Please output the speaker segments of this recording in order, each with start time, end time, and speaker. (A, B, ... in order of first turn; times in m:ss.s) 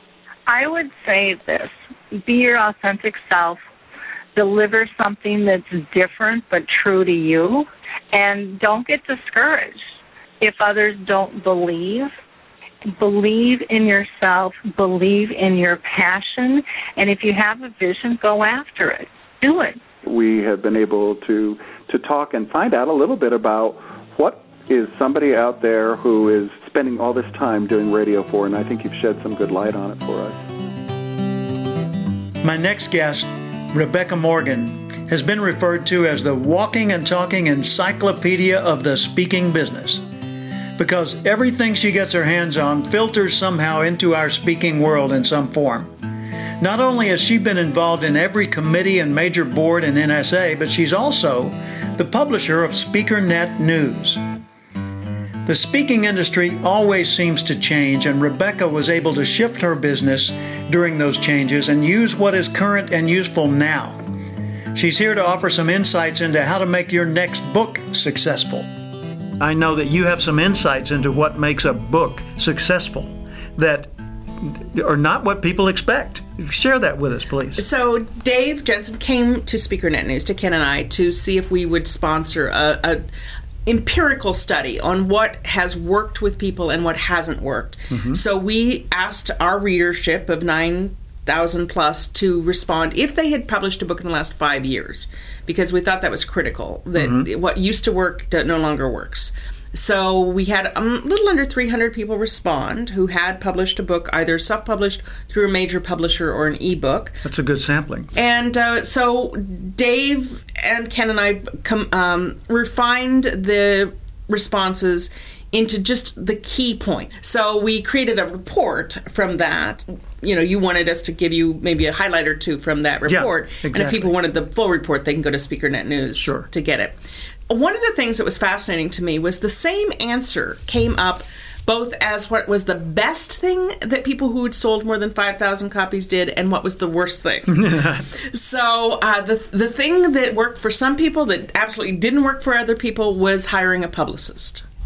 0:00.5-0:03.6 A
0:04.4-0:09.8 A
0:10.4-0:12.1 A
0:13.0-0:19.8 A
0:20.0-0:30.4 B
0:32.4-0:40.0 C
0:40.8-0:45.9 C
0:46.6-0:54.2 C
0:55.4-1:04.0 C
1:04.7-1:08.7 C
1:09.4-1:17.6 C
1:17.6-1:23.0 D
1:23.6-1:47.2 D
1:27.9-1:28.2 C
1:36.9-1:37.3 C
1:47.2-1:48.1 C
1:48.1-2:07.0 D
2:03.0-2:04.1 C
2:06.2-2:06.5 C
2:07.5-2:17.8 D
2:17.5-2:18.1 C
2:18.3-2:24.6 D